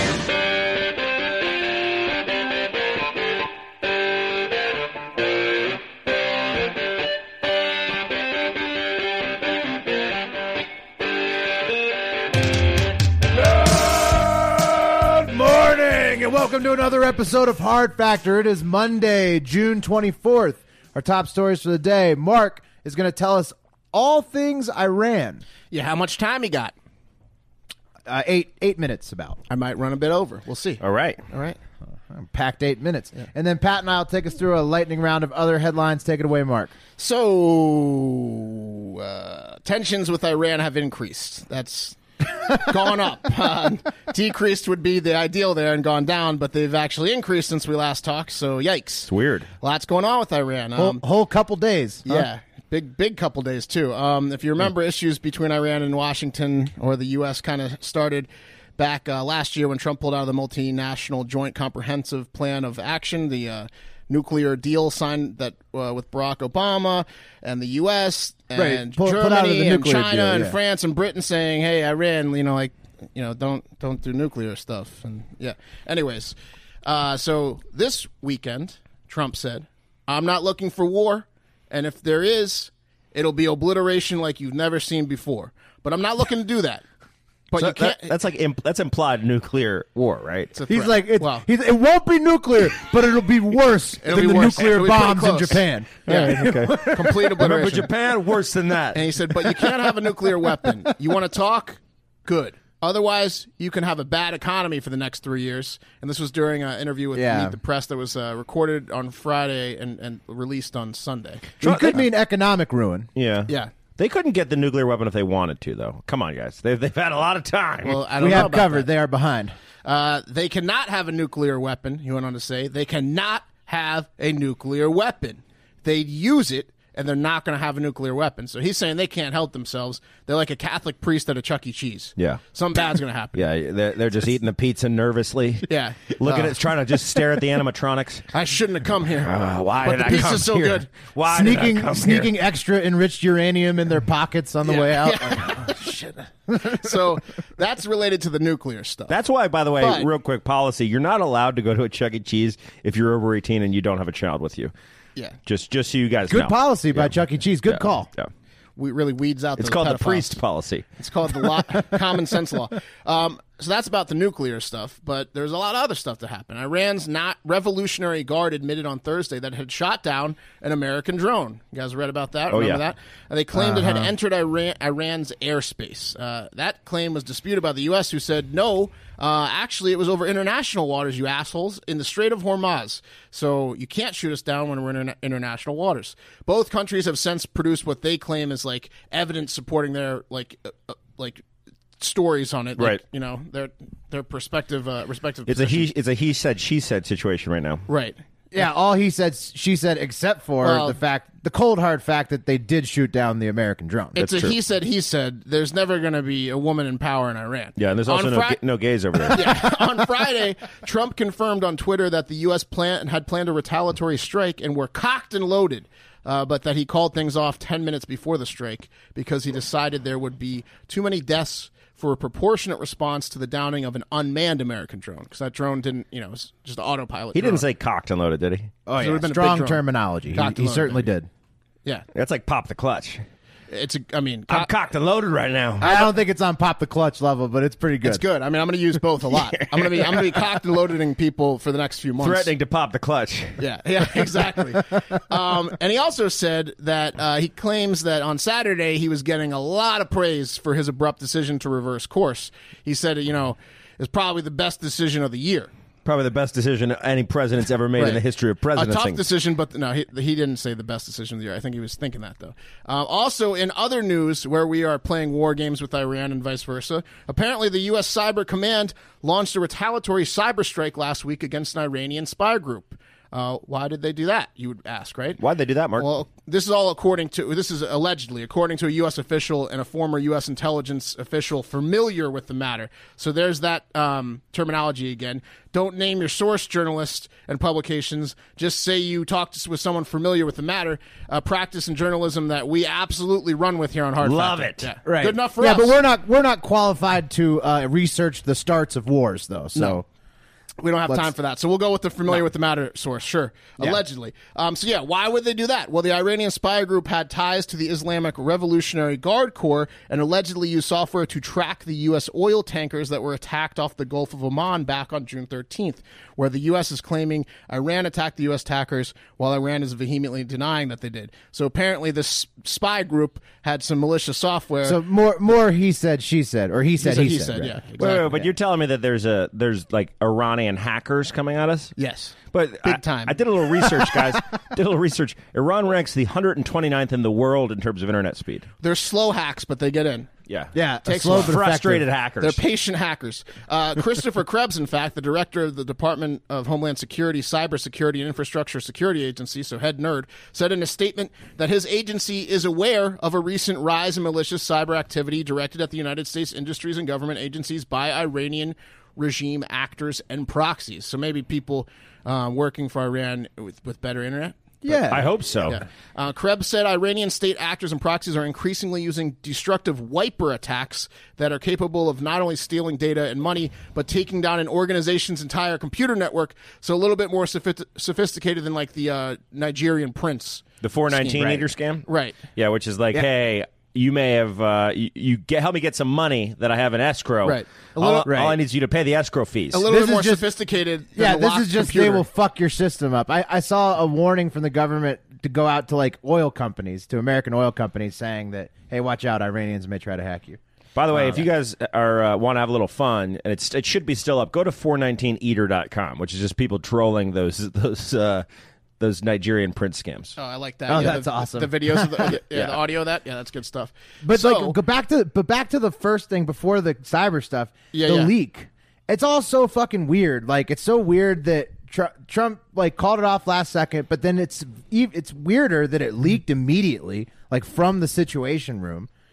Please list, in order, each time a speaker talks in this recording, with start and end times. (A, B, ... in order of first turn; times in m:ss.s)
0:13.4-0:25.4 A
0:25.7-0:26.7 B
0:28.0-0:29.4 A
0:29.5-0:31.6 B
0:30.8-0:31.2 C
0:32.1-0:36.7 A
0:37.0-0:49.1 B
0:49.1-0:49.5 C
0:49.6-0:51.0 B
0:50.8-0:52.3 A
0:52.0-1:26.8 B
1:08.5-1:10.6 A
1:27.5-1:28.1 B
1:27.6-1:30.5 C
1:30.5-1:31.4 B
1:30.7-1:37.5 A
1:34.0-1:37.9 B
1:36.1-1:39.2 C
1:38.9-1:51.5 B
1:47.1-1:47.6 A
1:51.6-1:53.1 A
1:51.6-1:52.0 C
1:53.2-1:58.4 C
1:57.8-1:58.9 B
1:58.2-1:59.5 A
1:59.8-2:13.4 B
2:13.3-2:18.3 C
2:15.7-2:16.6 B
2:18.3-2:20.9 B
2:19.2-2:22.3 C
2:21.3-2:26.8 A
2:24.6-2:29.2 B
2:29.1-2:34.7 C
2:29.8-2:30.1 B
2:35.4-2:37.1 C
2:36.3-2:38.1 A
2:37.7-2:38.3 C
2:38.8-2:40.4 B
2:39.6-2:40.9 C
2:41.0-3:11.4 B
2:52.5-2:52.8 C
2:53.5-2:54.1 A
3:12.0-3:15.9 B
3:15.5-3:17.8 C
3:17.9-3:18.2 B
3:18.5-3:24.2 A
3:20.6-3:21.0 B
3:24.1-3:28.6 B
3:24.2-3:24.5 C
3:27.8-3:29.5 C
3:29.3-3:47.6 B
3:47.3-3:48.7 C
3:48.8-3:51.3 A
3:49.0-3:51.1 B
3:52.1-3:53.2 C
3:53.7-3:54.7 B
3:54.5-3:55.9 C
3:55.8-3:58.2 A
3:58.0-4:02.5 B
3:59.5-4:00.5 C
4:02.2-4:03.6 C
4:03.6-4:15.7 B
4:16.0-4:19.2 C
4:18.7-4:35.4 B
4:35.4-4:36.1 C
4:36.0-4:55.9 B
4:54.2-4:54.9 C
4:55.0-5:00.0 A
4:59.7-5:00.0 B
5:00.8-5:25.0 B
5:24.8-5:28.2 A
5:27.0-5:28.5 B
5:28.0-5:32.0 C
5:32.0-5:33.4 B
5:32.5-5:38.7 C
5:38.8-5:40.3 B
5:40.5-5:42.6 C
5:40.7-5:42.0 A
5:41.0-5:41.5 B
5:42.4-6:04.8 B
6:04.8-6:05.3 A
6:05.1-6:05.8 C
6:05.6-6:22.4 B
6:20.8-6:29.8 C
6:27.4-6:28.3 B
6:28.2-6:28.6 A
6:29.7-6:32.2 B
6:29.8-6:30.4 A
6:31.2-6:40.6 A
6:41.0-6:48.4 C
6:41.1-6:41.4 A
6:49.0-6:50.4 C
6:50.4-6:54.8 B
6:50.9-6:52.3 A
6:54.2-7:09.1 A
6:57.9-6:58.3 B